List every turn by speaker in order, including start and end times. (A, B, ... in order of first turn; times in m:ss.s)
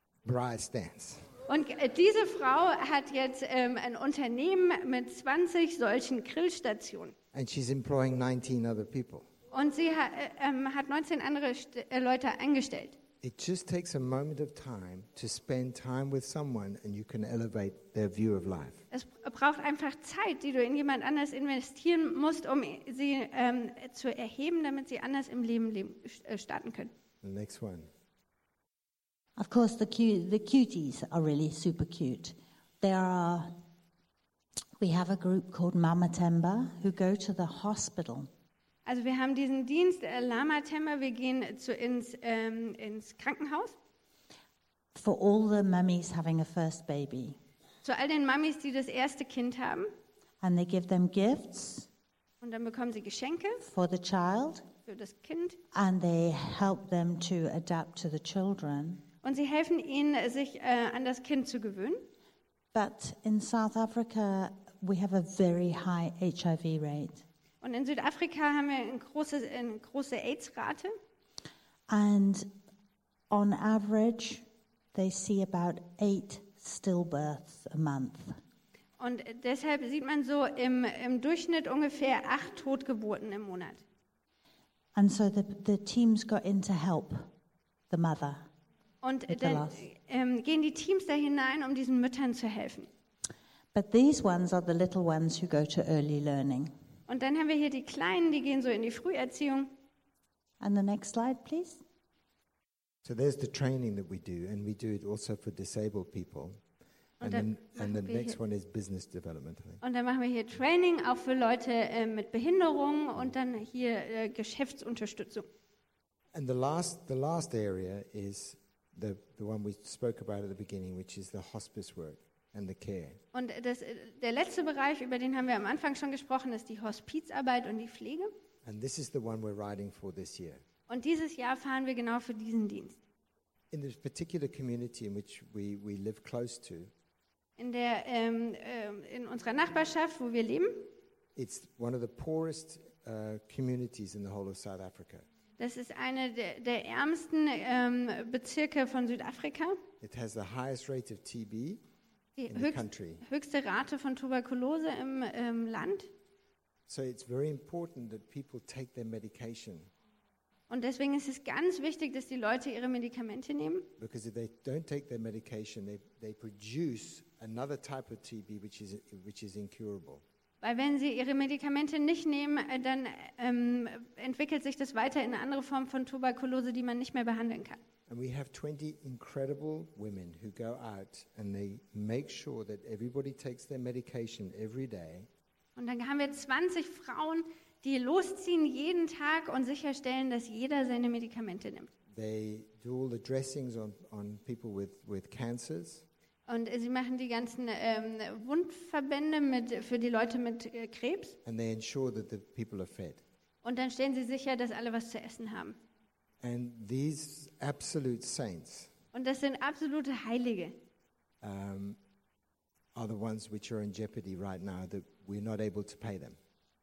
0:00.2-0:01.3 A
0:01.5-0:07.2 B
0:07.3-0:09.3 A
0:09.5-0:13.0 B
0:13.2-0:18.8 A
0:18.9-0:26.9 B
0:27.2-0:27.9 A
0:29.4-0:33.6 C
0:34.8-0:38.3 C
0:38.8-0:43.8 B
0:44.9-0:47.4 C
0:47.8-0:49.9 B
0:50.4-0:51.9 C
0:52.4-0:53.7 B
0:53.6-0:54.6 C
0:54.9-0:55.6 B
0:55.7-0:59.0 C
0:59.2-1:02.1 B
1:02.7-1:07.2 C
1:07.6-1:10.9 B
1:11.9-1:12.5 C
1:13.3-1:14.4 C
1:14.9-1:18.4 C
1:19.0-1:23.8 B
1:25.0-1:27.3 C
1:27.9-1:28.5 C
1:29.0-1:32.9 B
1:29.3-1:29.8 C
1:33.7-1:36.7 C
1:37.1-1:39.7 B
1:40.6-1:41.8 C
1:43.0-1:46.6 A
1:47.2-1:48.4 B
1:47.2-1:49.8 A
1:49.8-1:55.5 B
1:56.3-2:03.2 A
2:03.3-2:08.3 B
2:08.6-2:10.6 A
2:10.9-2:13.0 B
2:13.7-2:16.9 A
2:17.6-2:20.9 B
2:21.4-2:25.2 A
2:25.6-2:29.8 B
2:30.0-2:31.8 A
2:32.4-2:36.1 B
2:32.5-2:33.2 A
2:36.9-2:39.9 A
2:40.7-2:43.9 B
2:44.0-2:50.2 A
2:50.6-2:57.8 B
2:58.1-3:05.3 A
3:05.8-3:11.9 B
3:12.1-3:16.0 A
3:16.5-3:21.4 B
3:21.4-3:23.2 A
3:23.6-3:25.8 B
3:26.4-3:28.9 A
3:29.1-3:30.8 B
3:31.4-3:32.0 A
3:32.9-3:36.4 A